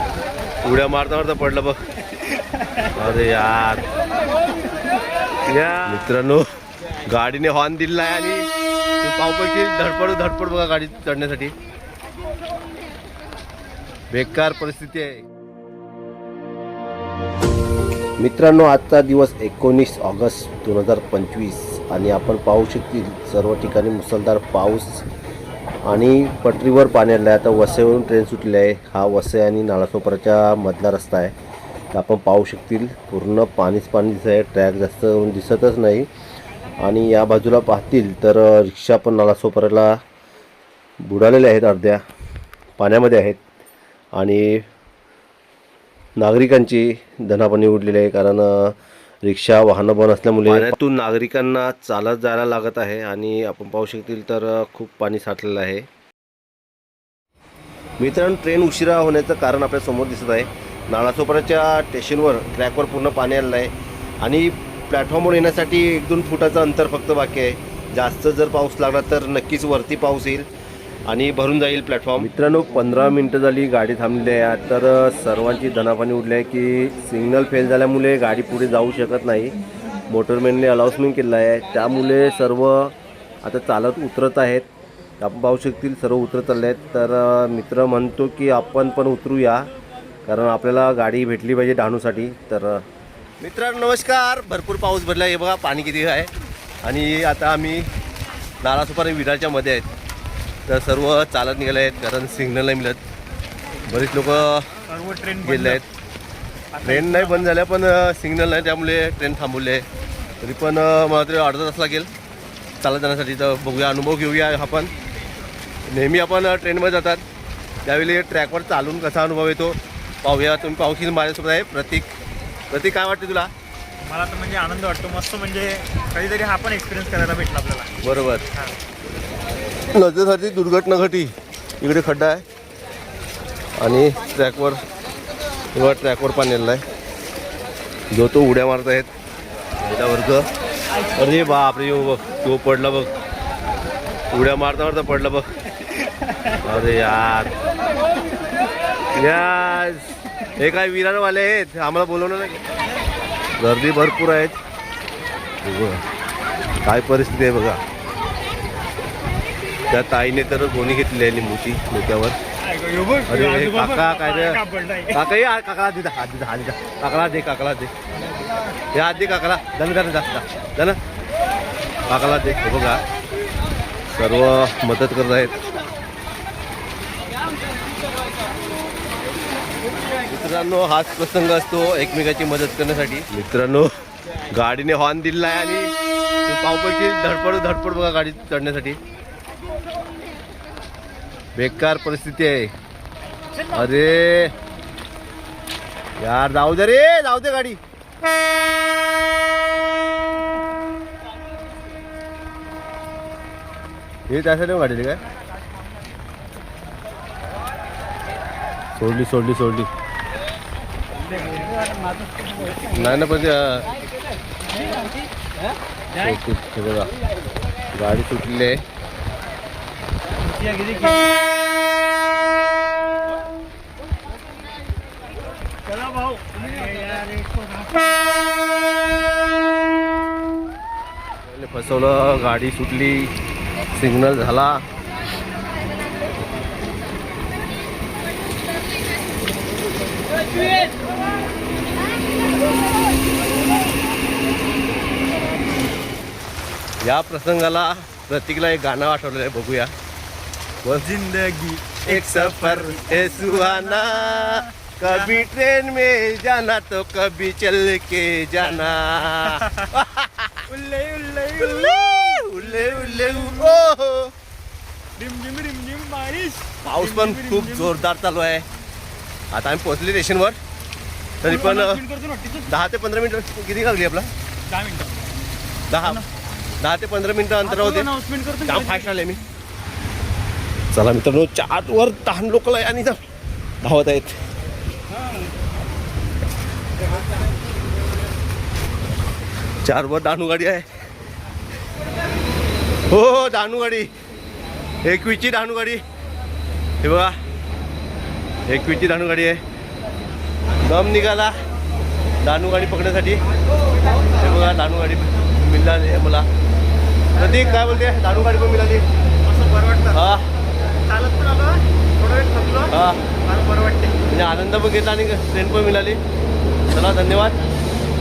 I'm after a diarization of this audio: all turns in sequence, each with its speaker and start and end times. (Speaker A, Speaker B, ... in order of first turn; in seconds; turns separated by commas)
Speaker A: 0.6-1.8, Speaker A: 2.9-3.9, Speaker A: 5.5-6.4, Speaker A: 7.1-8.5, Speaker A: 9.0-11.5, Speaker A: 14.1-15.2, Speaker A: 18.2-25.1, Speaker A: 25.9-31.3, Speaker A: 31.9-36.1, Speaker A: 36.8-40.0, Speaker A: 41.0-42.0, Speaker A: 42.8-43.4, Speaker A: 44.1-44.6, Speaker A: 46.2-55.9, Speaker A: 58.0-70.5, Speaker A: 71.1-79.6, Speaker A: 80.1-84.7, Speaker A: 85.2-89.7, Speaker A: 90.2-92.8, Speaker A: 93.4-96.3, Speaker A: 96.8-97.9, Speaker A: 98.6-99.9, Speaker A: 100.7-103.0, Speaker A: 103.9-104.7, Speaker B: 104.9-105.8, Speaker A: 105.4-105.8, Speaker B: 106.7-107.5, Speaker A: 106.8-109.8, Speaker A: 110.4-112.1, Speaker A: 112.8-114.9, Speaker A: 115.9-117.2, Speaker A: 117.8-122.1, Speaker A: 122.7-123.5, Speaker B: 124.0-127.9, Speaker A: 128.0-128.4, Speaker A: 129.9-132.4, Speaker A: 133.8-134.8, Speaker A: 135.7-136.8, Speaker A: 138.1-139.1, Speaker A: 139.8-140.5, Speaker A: 141.1-143.1, Speaker A: 144.3-145.4, Speaker A: 146.6-147.5, Speaker A: 149.1-152.6, Speaker A: 153.6-154.6, Speaker A: 155.6-156.0, Speaker A: 156.8-157.8, Speaker A: 159.9-162.4, Speaker B: 162.6-165.2, Speaker A: 163.3-167.9, Speaker A: 168.9-171.0, Speaker A: 172.1-173.0, Speaker A: 174.1-175.7, Speaker A: 180.3-183.9, Speaker A: 184.5-185.9, Speaker A: 186.4-189.0, Speaker A: 191.6-192.7, Speaker A: 193.7-194.5, Speaker A: 196.2-197.8, Speaker A: 204.3-205.2, Speaker A: 209.0-209.9, Speaker B: 211.4-212.7, Speaker A: 212.8-213.9, Speaker A: 216.1-217.1, Speaker A: 217.9-218.8, Speaker B: 220.4-221.2, Speaker B: 225.9-227.9, Speaker A: 231.4-233.3, Speaker A: 233.9-234.8, Speaker A: 247.0-249.9, Speaker A: 250.8-251.1, Speaker B: 250.9-255.4, Speaker A: 252.0-260.6, Speaker B: 259.4-259.9, Speaker B: 260.7-263.8, Speaker A: 261.6-264.3, Speaker B: 265.2-268.0, Speaker A: 266.8-268.6, Speaker A: 269.5-270.6, Speaker A: 271.4-272.0, Speaker B: 271.4-272.7, Speaker A: 272.7-274.3, Speaker B: 274.7-275.2, Speaker A: 275.9-276.2, Speaker A: 276.8-278.1, Speaker B: 277.6-279.2, Speaker A: 278.7-279.4, Speaker A: 280.9-283.2, Speaker A: 283.8-284.4, Speaker A: 289.8-290.9, Speaker A: 293.1-294.1, Speaker A: 295.0-296.0, Speaker A: 297.0-297.4, Speaker A: 298.7-299.6, Speaker A: 300.8-301.6, Speaker A: 302.4-303.4, Speaker A: 304.3-306.5, Speaker A: 307.3-309.0, Speaker B: 309.4-310.3, Speaker A: 310.1-310.5, Speaker B: 310.9-314.2, Speaker A: 312.9-313.3, Speaker A: 314.2-316.2, Speaker A: 316.9-317.6